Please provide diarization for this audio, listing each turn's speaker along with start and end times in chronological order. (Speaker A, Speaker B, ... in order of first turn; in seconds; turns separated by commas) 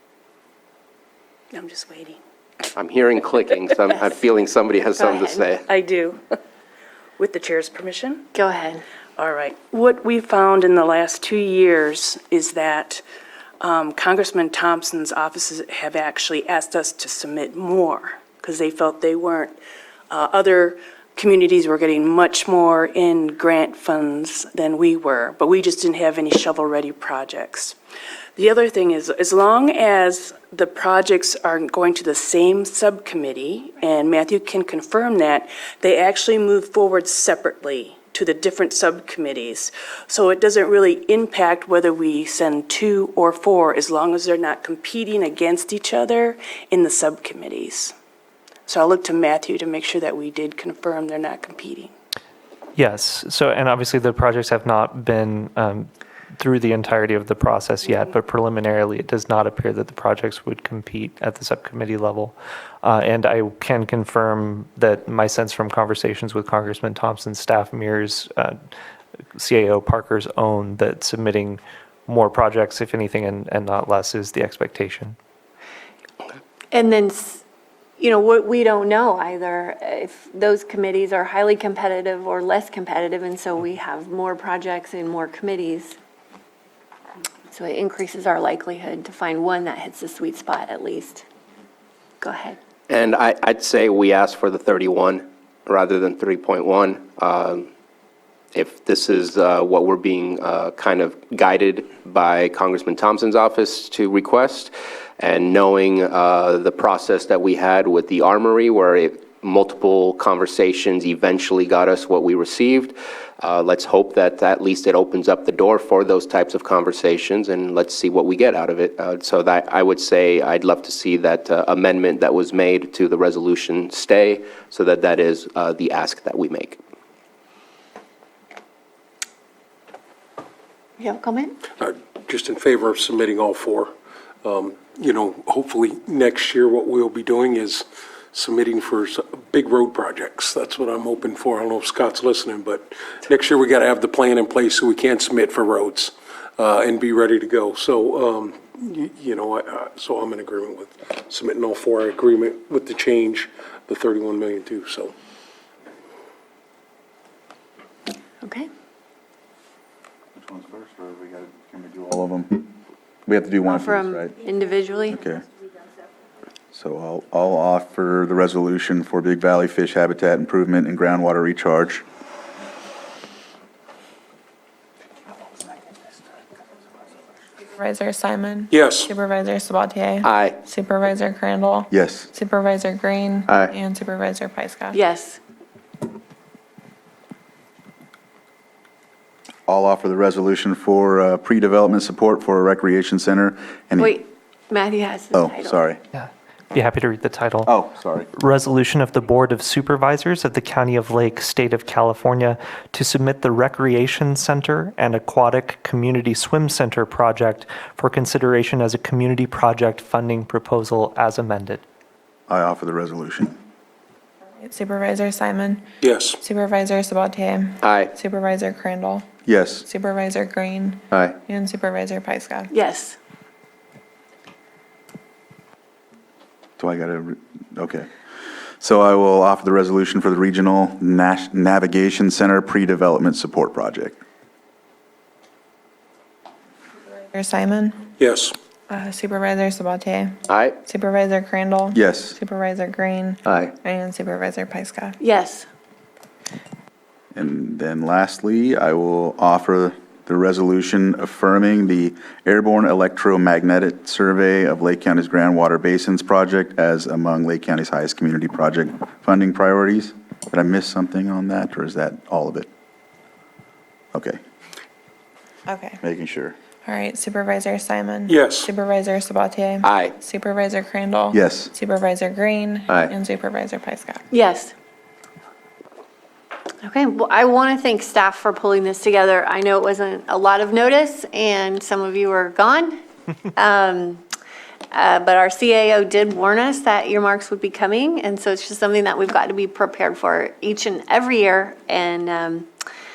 Speaker A: 1.5-2.2, Speaker B: 2.7-5.6, Speaker C: 5.0-5.5, Speaker A: 5.7-6.2, Speaker A: 7.2-8.3, Speaker C: 8.3-8.8, Speaker A: 9.2-13.0, Speaker A: 13.6-19.6, Speaker A: 20.1-27.8, Speaker A: 28.4-47.9, Speaker A: 48.7-51.9, Speaker D: 52.8-68.6, Speaker D: 69.3-75.2, Speaker C: 76.7-77.4, Speaker C: 78.0-86.0, Speaker C: 87.5-91.2, Speaker C: 92.2-92.6, Speaker B: 92.9-97.7, Speaker B: 98.5-126.8, Speaker C: 131.0-131.6, Speaker E: 131.8-133.9, Speaker E: 134.4-155.1, Speaker C: 158.4-158.7, Speaker F: 160.4-162.7, Speaker F: 163.2-164.3, Speaker C: 163.6-165.3, Speaker F: 165.1-165.4, Speaker F: 166.7-172.0, Speaker G: 177.8-185.0, Speaker E: 178.7-179.1, Speaker B: 180.2-180.6, Speaker F: 181.9-182.3, Speaker C: 184.9-185.4, Speaker F: 189.7-194.2, Speaker C: 194.0-195.8, Speaker F: 195.3-196.0, Speaker D: 196.1-197.8, Speaker F: 197.7-198.3, Speaker D: 198.3-211.8, Speaker F: 212.5-213.5, Speaker G: 214.6-215.8, Speaker E: 216.0-216.4, Speaker G: 216.4-219.3, Speaker B: 217.8-218.1, Speaker F: 219.4-219.8, Speaker G: 219.8-222.7, Speaker C: 222.7-223.2, Speaker F: 226.8-228.1, Speaker F: 228.8-234.2, Speaker G: 237.3-238.1, Speaker E: 238.2-238.5, Speaker G: 238.9-245.2, Speaker B: 240.5-240.8, Speaker F: 241.9-242.3, Speaker C: 245.2-245.7, Speaker F: 247.3-262.7, Speaker F: 264.1-264.4, Speaker G: 265.7-266.0, Speaker F: 266.0-266.5, Speaker G: 266.8-274.2, Speaker E: 268.3-268.7, Speaker B: 269.8-270.1, Speaker F: 271.3-271.7, Speaker C: 274.3-274.7, Speaker C: 276.8-283.0, Speaker C: 283.5-284.2, Speaker C: 284.9-292.7